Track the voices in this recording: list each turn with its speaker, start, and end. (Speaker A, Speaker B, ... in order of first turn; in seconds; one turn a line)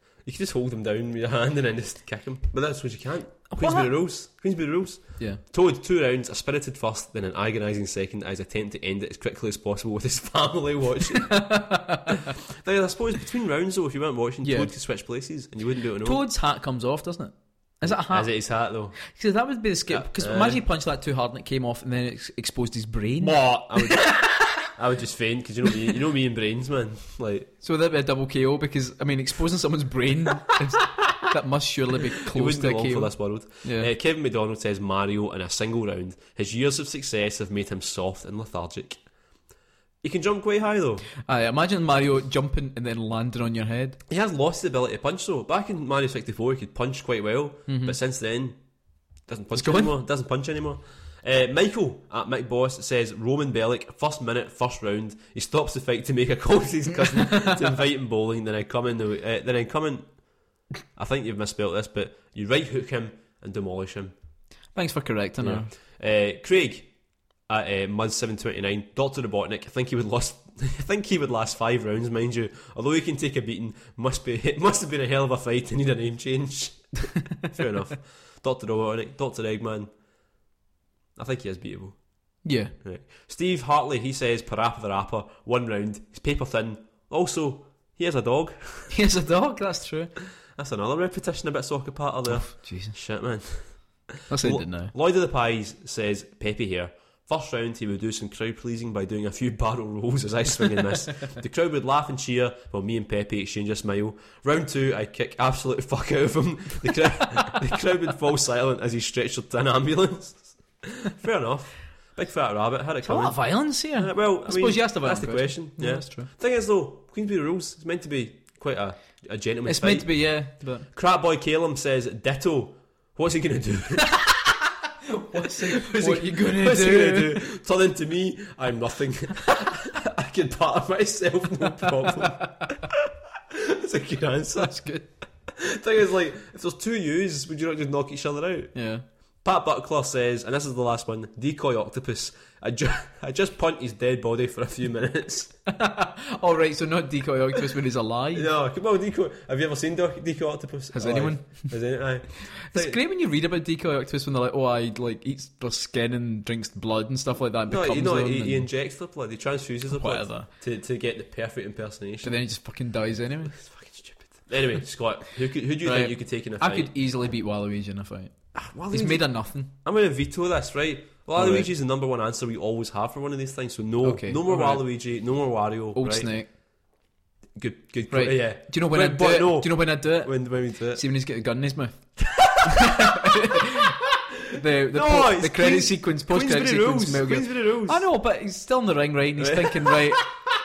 Speaker A: 0.2-11.4
Speaker B: 3.5-3.9
Speaker B: 11.3-12.2
Speaker A: 12.4-16.2
Speaker B: 14.4-14.7
Speaker B: 16.0-18.3
Speaker A: 17.8-19.0
Speaker B: 19.0-23.4
Speaker A: 19.9-20.6
Speaker A: 23.2-27.5
Speaker B: 24.1-24.5
Speaker B: 27.6-33.9
Speaker A: 32.3-39.0
Speaker A: 40.0-41.1
Speaker B: 41.3-44.0
Speaker A: 44.1-48.6
Speaker B: 47.7-48.0
Speaker A: 49.3-60.2
Speaker B: 49.5-49.9
Speaker A: 61.0-64.1
Speaker B: 64.8-65.7
Speaker A: 65.4-66.9
Speaker A: 67.5-79.9
Speaker A: 81.2-82.0
Speaker B: 82.4-82.7
Speaker A: 82.8-88.9
Speaker B: 88.9-90.1
Speaker A: 90.5-120.2
Speaker B: 92.3-93.0
Speaker B: 94.3-94.9
Speaker B: 113.0-116.3
Speaker B: 119.7-120.9
Speaker A: 120.9-124.2
Speaker B: 124.1-124.5
Speaker B: 125.1-127.4
Speaker A: 125.3-134.9
Speaker B: 134.6-135.1
Speaker A: 135.5-138.7
Speaker B: 138.8-139.1
Speaker A: 139.4-145.5
Speaker B: 145.7-148.5
Speaker A: 148.3-153.0
Speaker B: 150.9-151.7
Speaker B: 152.5-158.7
Speaker A: 157.7-162.4
Speaker B: 159.9-160.5
Speaker B: 162.2-163.6
Speaker A: 163.5-166.9
Speaker B: 165.8-168.3
Speaker A: 168.5-176.3
Speaker B: 168.9-169.7
Speaker B: 171.3-171.7
Speaker B: 174.0-174.8
Speaker B: 175.9-176.5
Speaker A: 177.6-181.0
Speaker B: 178.1-184.0
Speaker A: 182.4-183.4
Speaker B: 184.5-190.3
Speaker A: 184.9-188.1
Speaker A: 189.4-190.4